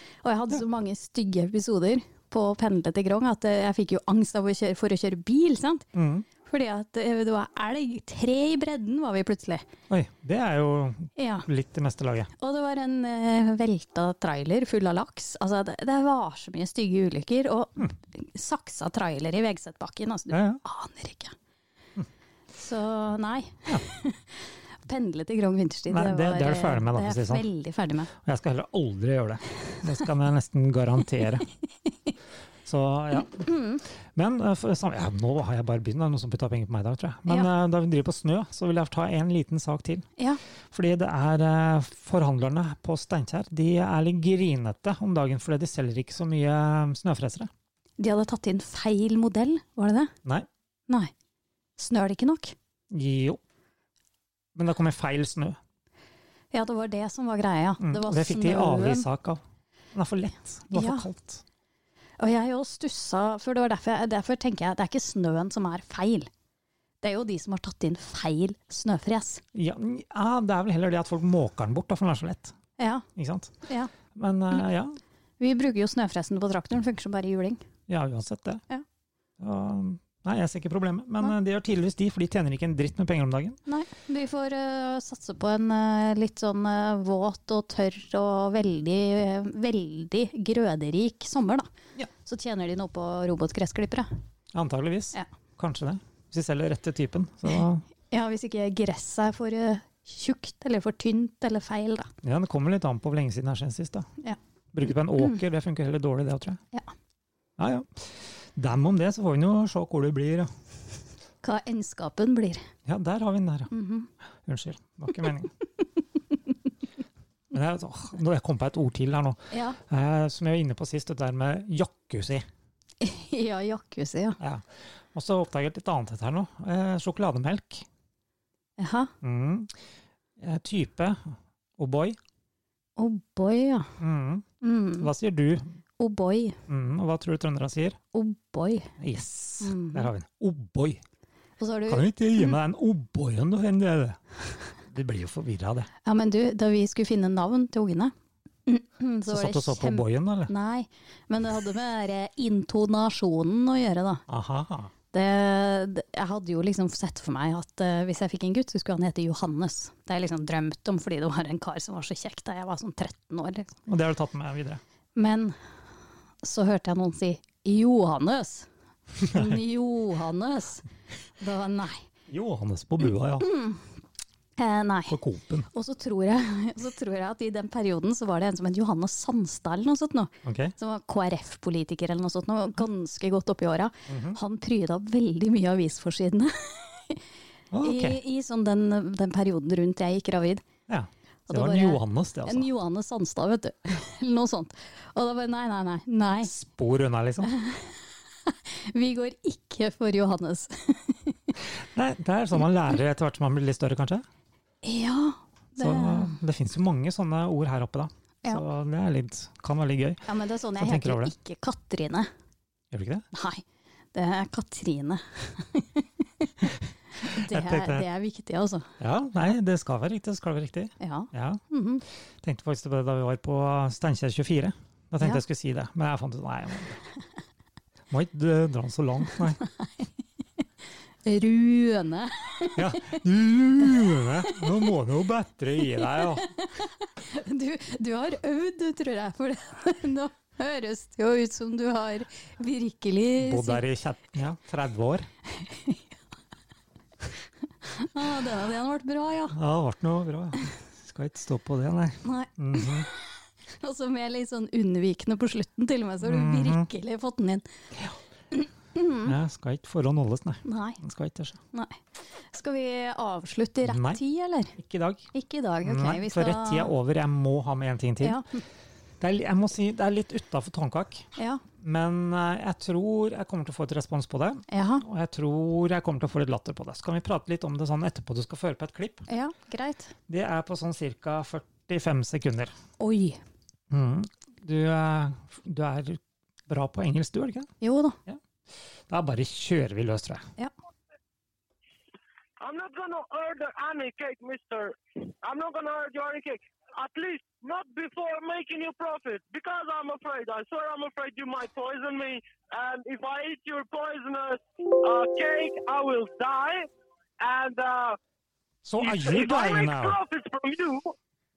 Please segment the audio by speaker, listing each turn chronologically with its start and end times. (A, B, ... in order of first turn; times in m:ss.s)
0:00.2-0:05.9 A
0:05.9-0:06.3 B
0:06.4-0:09.7 A
0:09.9-0:12.3 B
0:11.2-0:11.5 A
0:12.4-0:21.4 A
0:20.3-0:20.6 B
0:22.5-0:28.1 A
0:25.9-0:27.5 B
0:28.1-0:31.5 B
0:32.6-0:33.5 B
0:33.4-0:33.8 A
0:34.2-0:40.1 B
0:40.7-0:47.5 B
0:48.0-0:50.1 A
0:51.8-0:52.6 A
0:52.9-0:53.4 B
0:54.6-0:55.6 B
0:56.5-0:59.1 A
0:57.8-0:59.4 B
0:59.9-1:01.4 B
1:00.7-1:01.1 A
1:02.2-1:06.3 A
1:07.0-1:09.4 A
1:09.5-1:12.6 B
1:12.8-1:13.1 A
1:13.2-1:15.0 B
1:13.6-1:13.9 A
1:15.4-1:17.6 A
1:17.9-1:18.6 B
1:19.4-1:23.6 B
1:23.7-1:34.1 A
1:34.5-1:37.8 B
1:38.1-1:42.1 A
1:42.2-1:44.1 B
1:44.7-1:46.6 B
1:47.6-1:50.5 B
1:51.4-1:52.7 A
1:52.8-1:53.7 B
1:53.7-1:54.1 A
1:54.4-1:55.5 B
1:57.5-2:02.4 B
1:59.5-1:59.8 A
2:03.0-2:04.4 A
2:04.4-2:07.9 B
2:08.8-2:09.1 A
2:09.2-2:09.7 B
2:10.4-2:12.2 B
2:13.0-2:14.0 A
2:14.0-2:14.5 B
2:14.6-2:15.1 A
2:15.0-2:15.8 B
2:16.0-2:16.6 A
2:16.7-2:18.0 B
2:18.1-2:18.9 A
2:19.0-2:21.0 B
2:19.6-2:20.1 A
2:21.6-2:22.6 A
2:21.9-2:24.2 B
2:24.9-2:25.9 B
2:26.0-2:28.1 A
2:28.7-2:34.2 A
2:29.3-2:30.5 B
2:34.3-2:34.9 B
2:35.1-2:43.7 A
2:43.9-2:44.8 B
2:45.2-2:45.6 A
2:46.4-2:48.7 A
2:49.2-2:50.9 A
2:49.2-2:49.6 B
2:51.4-2:52.1 A
2:52.3-2:53.5 B
2:53.4-2:53.8 A
2:54.6-2:55.2 A
2:55.1-2:55.7 B
2:55.7-3:07.2 A
3:00.4-3:00.7 B
3:04.1-3:04.4 B
3:07.7-3:08.2 B
3:07.8-3:10.6 A
3:10.9-3:12.7 B
3:11.5-3:16.5 A
3:16.4-3:17.5 B
3:17.4-3:21.6 A
3:21.8-3:24.2 B
3:24.8-3:26.4 A
3:25.8-3:30.3 B
3:30.3-3:32.3 A
3:30.8-3:31.3 B
3:32.9-3:33.2 B
3:33.3-3:33.6 A
3:34.1-3:38.9 A
3:37.4-3:38.1 B
3:39.0-3:41.6 B
3:41.0-3:42.0 A
3:42.4-3:47.0 B
3:48.1-3:49.6 B
3:51.2-3:53.2 A
3:52.8-3:56.5 B
3:53.9-3:54.8 A
3:55.9-4:03.8 A
4:03.4-4:05.3 B
4:05.6-4:06.0 A
4:07.9-4:09.6 A
4:09.5-4:13.1 B
4:12.2-4:13.2 A
4:13.8-4:17.6 A
4:16.2-4:16.9 B
4:18.5-4:19.3 A
4:19.3-4:21.6 B
4:20.6-4:21.0 A
4:21.7-4:22.0 A
4:22.5-4:24.8 A
4:23.8-4:24.2 B
4:24.8-4:25.3 B
4:25.3-4:26.9 A
4:25.8-4:28.4 B
4:28.2-4:28.6 A
4:29.2-4:31.3 B
4:31.4-4:31.6 A
4:31.8-4:39.3 B
4:34.7-4:35.0 A
4:39.3-4:40.2 A
4:40.3-4:42.7 B
4:43.0-4:43.4 A
4:43.9-4:47.7 B
4:47.8-4:48.2 A
4:49.1-4:50.4 B
4:52.6-5:06.9 C
5:07.4-5:08.2 C
5:08.8-5:10.2 B
5:09.0-5:11.1 C